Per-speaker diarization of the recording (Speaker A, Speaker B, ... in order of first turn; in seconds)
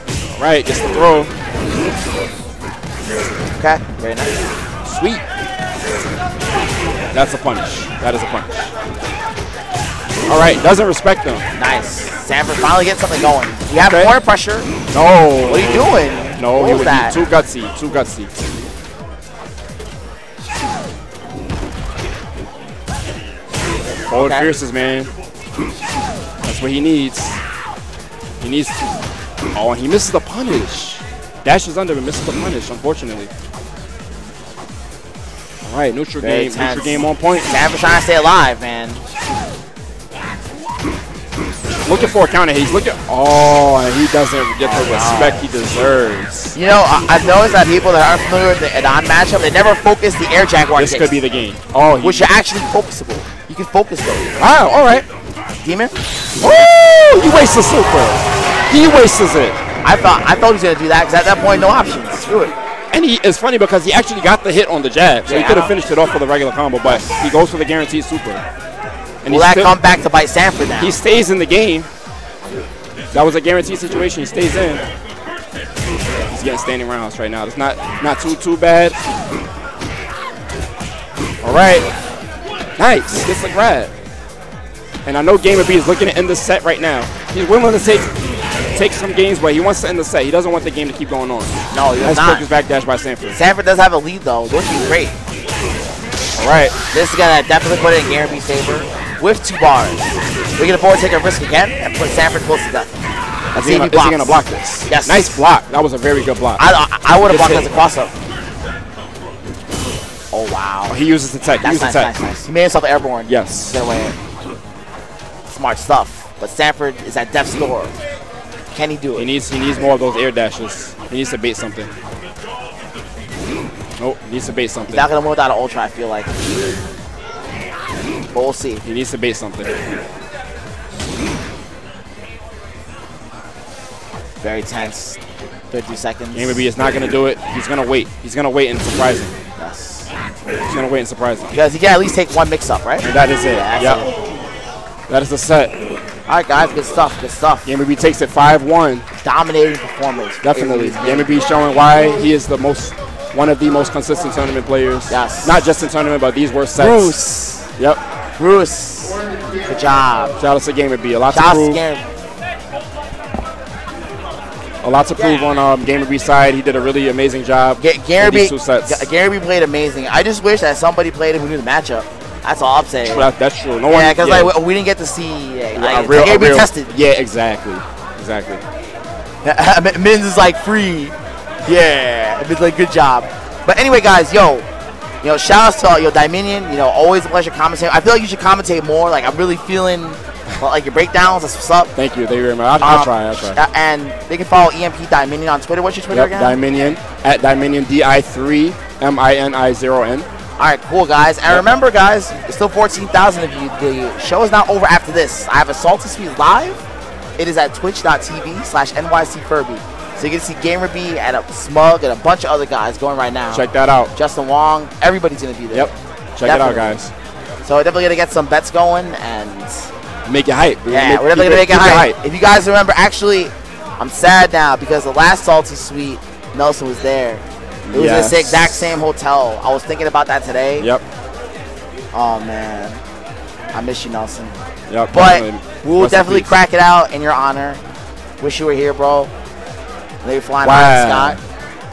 Speaker A: 0.4-1.3, 4.8-5.2, 7.1-8.7, 10.3-11.5, 13.8-14.1, 14.9-18.3, 24.1-25.1, 26.4-27.4, 28.4-28.8, 29.6-33.3, 35.6-37.5, 41.9-46.5, 50.8-52.3, 54.4-55.1, 56.4-59.6, 62.9-68.4, 69.2-69.7, 70.8-71.9, 73.1-74.8, 76.3-79.0, 81.4-81.9, 82.8-83.9, 85.1-88.1, 88.8-93.4, 96.4-96.8, 103.6-106.7, 107.2-107.8, 110.9-112.1, 113.3-113.8, 119.2-121.9, 124.0-125.1, 128.8-129.7, 136.3-139.3, 140.7-141.6, 143.0-144.0, 145.1-145.7, 147.7-149.1, 150.4-157.1, 160.4-161.8, 164.8-169.1, 173.0-174.5, 175.8-178.6, 191.9-193.6, 196.1-200.3, 213.5-214.1, 215.7-217.1, 220.3-222.2, 227.9-228.9, 234.9-236.5, 240.6-241.4
Speaker B: 3.6-4.4, 11.6-14.7, 15.4-17.2, 24.1-24.5, 36.2-39.0, 44.6-45.4, 46.5-51.2, 52.0-54.4, 55.6-56.0, 59.8-62.5, 65.3-65.7, 66.8-67.1, 69.3-71.0, 91.7-92.5, 93.3-95.2, 96.9-103.0, 103.5-105.4, 106.6-108.1, 110.3-111.0, 111.6-114.2, 115.5-117.9, 118.7-119.3, 124.9-126.3, 128.3-128.8, 134.4-135.2, 135.7-136.7, 139.6-140.1, 141.5-144.1, 146.3-147.7, 149.2-151.3, 155.1-155.6, 156.8-157.7, 158.4-160.4, 161.3-162.1, 165.2-165.5, 167.8-173.3, 173.9-176.9, 179.4-181.2, 181.7-184.7, 185.2-191.9, 192.8-196.6, 200.6-206.8, 207.4-215.9, 216.4-216.9, 217.7-219.9, 220.9-230.9, 232.1-233.0, 233.7-234.6, 235.1-237.8, 238.4-239.3, 240.2-241.4